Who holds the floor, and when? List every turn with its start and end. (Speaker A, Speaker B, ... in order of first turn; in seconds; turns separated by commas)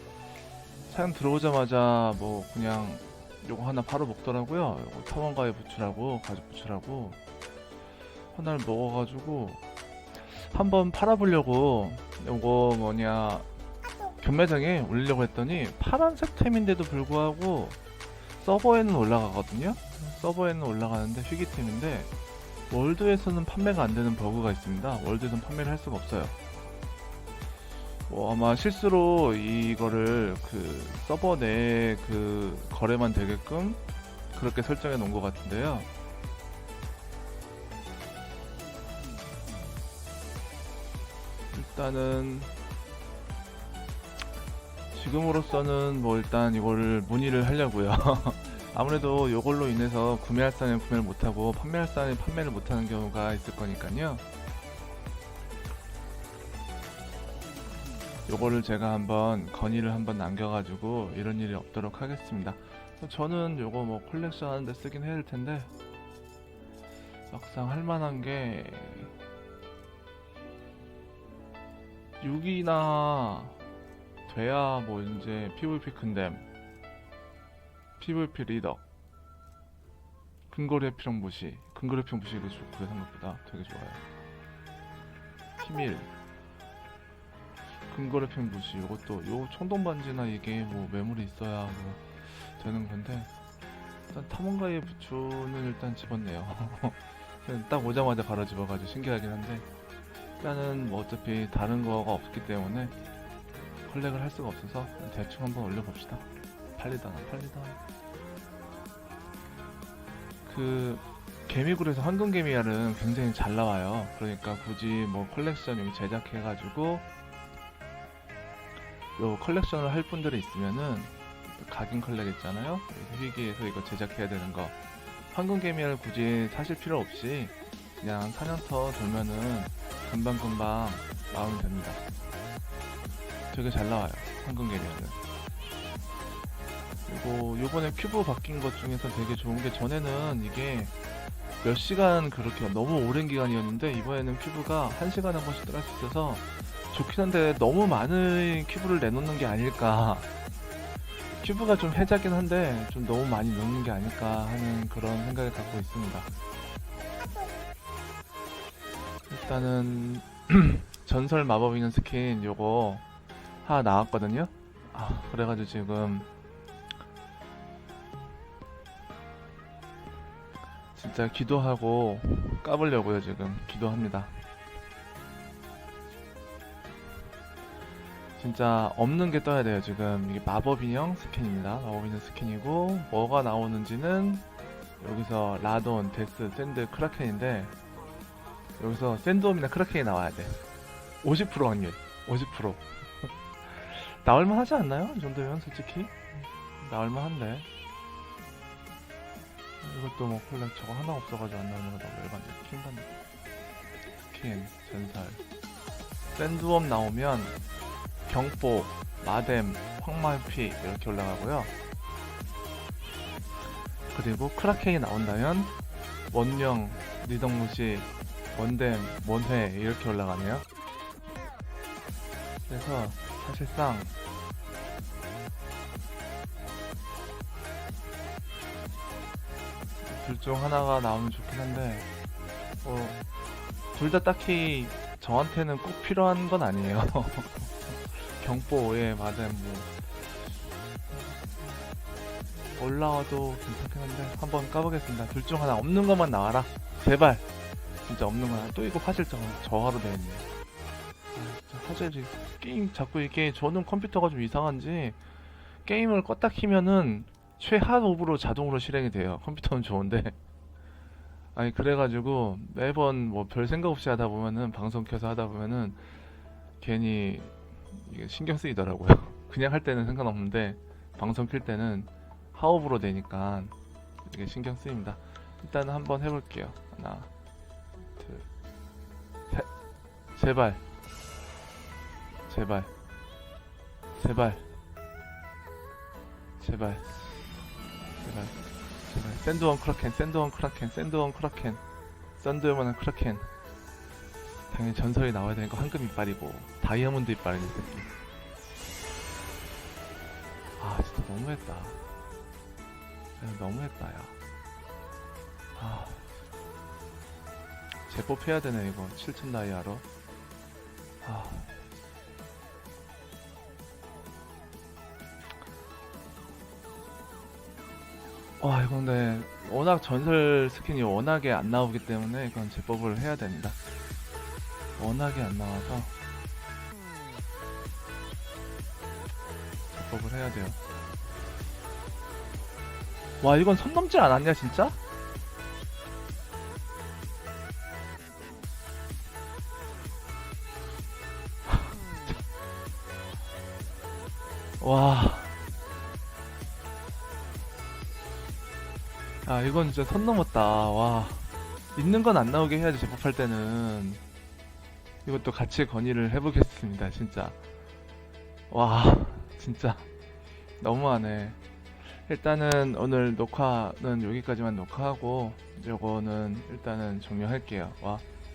Speaker A: 0.9-7.2, Speaker A: 8.3-9.6, Speaker A: 10.2-13.5, Speaker A: 14.2-17.8, Speaker A: 18.4-22.1, Speaker A: 22.7-26.4, Speaker A: 28.1-35.9, Speaker A: 41.5-42.5, Speaker A: 44.9-54.2, Speaker A: 58.3-65.7, Speaker A: 67.3-69.1, Speaker A: 72.2-73.6, Speaker A: 74.3-76.5, Speaker A: 78.0-78.8, Speaker A: 80.5-84.0, Speaker A: 85.6-86.1, Speaker A: 87.9-93.3, Speaker A: 94.1-99.7, Speaker A: 100.4-103.0, Speaker A: 103.9-107.8, Speaker A: 110.5-117.0, Speaker A: 119.2-124.8, Speaker A: 125.3-132.0, Speaker A: 133.5-135.2, Speaker A: 137.1-140.9, Speaker A: 141.6-150.3, Speaker A: 151.4-156.3, Speaker A: 159.3-163.1, Speaker A: 163.6-166.3, Speaker A: 170.9-174.4, Speaker A: 178.4-184.5, Speaker A: 185.0-187.7, Speaker A: 188.8-190.6, Speaker A: 191.2-197.7, Speaker A: 199.8-203.1, Speaker A: 204.2-205.4, Speaker A: 206.3-207.6, Speaker A: 208.3-211.7, Speaker A: 214.1-215.8, Speaker A: 216.3-220.7, Speaker A: 222.7-224.1, Speaker A: 230.0-232.1, Speaker A: 232.8-233.2, Speaker A: 233.9-240.0, Speaker A: 241.1-241.8, Speaker A: 242.8-247.4, Speaker A: 248.0-250.4, Speaker A: 251.3-255.2, Speaker A: 255.8-260.4, Speaker A: 261.6-266.1, Speaker A: 266.8-277.3, Speaker A: 278.2-278.5, Speaker A: 280.4-280.8, Speaker A: 282.5-282.9, Speaker A: 284.1-284.7, Speaker A: 286.6-287.1, Speaker A: 288.2-291.8, Speaker A: 292.4-293.5, Speaker A: 294.7-298.1, Speaker A: 300.8-302.1, Speaker A: 303.4-304.3, Speaker A: 305.8-306.2, Speaker A: 308.1-310.1, Speaker A: 311.2-311.7, Speaker A: 318.6-323.8, Speaker A: 325.0-326.1, Speaker A: 329.9-330.8, Speaker A: 333.4-335.0, Speaker A: 341.7-342.4, Speaker A: 344.8-345.6, Speaker A: 349.4-354.2, Speaker A: 355.2-357.6, Speaker A: 358.7-360.1, Speaker A: 360.8-368.2